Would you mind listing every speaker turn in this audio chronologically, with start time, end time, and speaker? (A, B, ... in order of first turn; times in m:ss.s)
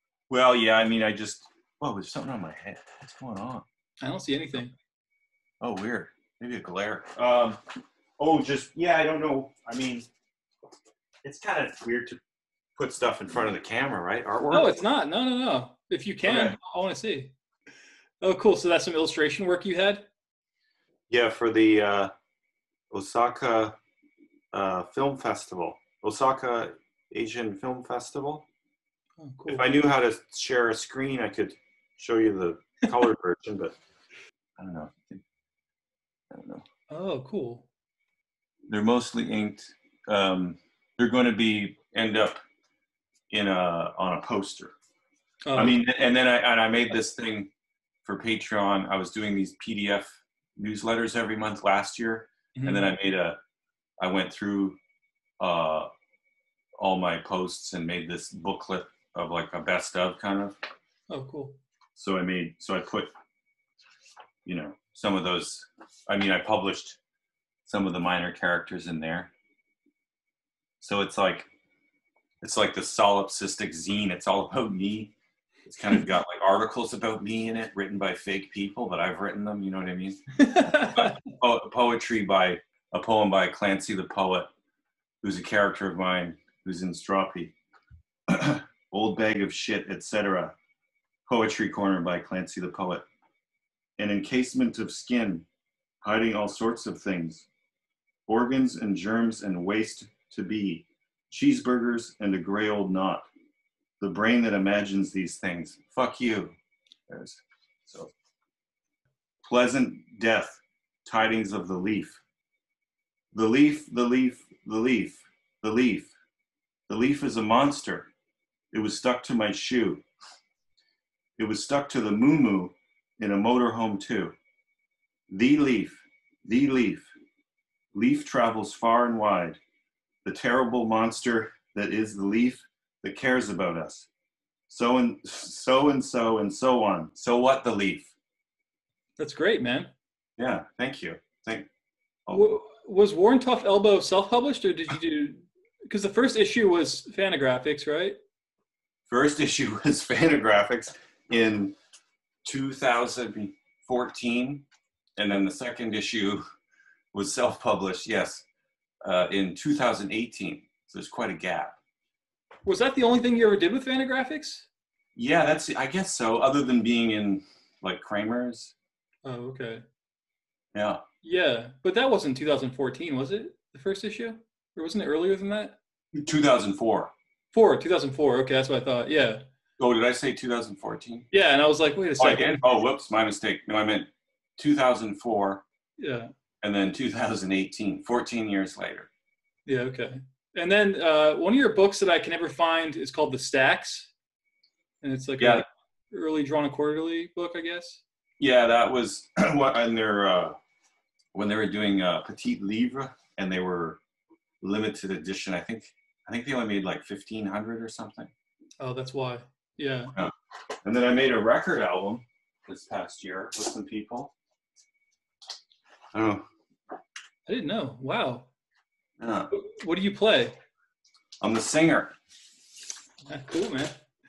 0:00.3-0:03.6 A
0:04.0-0:04.7 B
0:05.6-0:07.6 A
0:08.2-0:10.1 A
0:11.2-0:12.2 A
0:12.8-0:14.7 A
0:14.5-0:17.3 B
0:16.2-0:16.6 A
0:18.2-0:20.1 B
0:21.1-0:22.1 A
0:22.9-0:23.8 A
0:24.5-0:28.4 A
0:29.2-0:29.6 B
0:29.5-0:33.7 A
0:34.6-0:35.2 A
0:36.3-0:36.6 A
0:36.9-0:37.6 B
0:38.7-0:42.4 A
0:43.3-0:44.7 A
0:45.4-0:45.8 B
0:45.5-0:47.5 A
0:48.0-0:53.4 A
0:52.6-0:52.9 B
0:54.0-0:54.8 A
0:55.4-0:55.9 A
0:56.8-1:00.6 A
1:01.1-1:01.6 B
1:01.9-1:03.1 A
1:04.4-1:07.0 A
1:07.6-1:09.3 A
1:10.8-1:11.5 A
1:12.4-1:15.1 A
1:15.6-1:24.5 A
1:20.4-1:21.2 B
1:25.2-1:27.5 A
1:28.3-1:30.5 A
1:31.3-1:33.0 A
1:34.0-1:35.5 A
1:36.0-1:37.5 A
1:38.3-1:43.3 A
1:44.0-1:46.5 A
1:47.1-1:48.1 A
1:49.4-1:52.2 A
1:53.3-1:56.1 A
1:56.9-1:58.1 A
1:58.7-2:00.0 A
2:01.4-2:04.3 A
2:05.3-2:07.1 A
2:07.9-2:09.6 A
2:10.2-2:14.1 A
2:14.7-2:18.1 A
2:19.2-2:19.9 B
2:20.4-2:21.7 A
2:22.3-2:28.2 B
2:29.1-2:31.7 A
2:32.4-2:34.6 A
2:35.2-2:36.4 A
2:37.1-2:38.4 A
2:39.0-2:41.8 A
2:42.6-2:44.7 B
2:45.2-2:48.7 A
2:49.2-2:49.8 B
2:50.7-2:51.0 A
2:51.2-2:55.8 B
2:56.1-2:57.1 A
2:57.5-2:59.4 B
2:59.8-3:01.3 A
3:01.3-3:02.6 B
3:02.2-3:05.6 A
3:06.0-3:06.3 B
3:06.6-3:09.1 A
3:09.6-3:14.1 B
3:15.0-3:18.0 B
3:15.4-3:15.6 A
3:18.4-3:20.6 A
3:21.3-3:24.0 A
3:24.6-3:28.3 A
3:28.8-3:30.1 B
3:30.8-3:34.3 A
3:36.1-3:36.4 A
3:37.4-3:38.5 B
3:39.2-3:39.5 A
3:39.5-3:40.6 B
3:41.4-3:42.1 A
3:43.2-3:44.0 B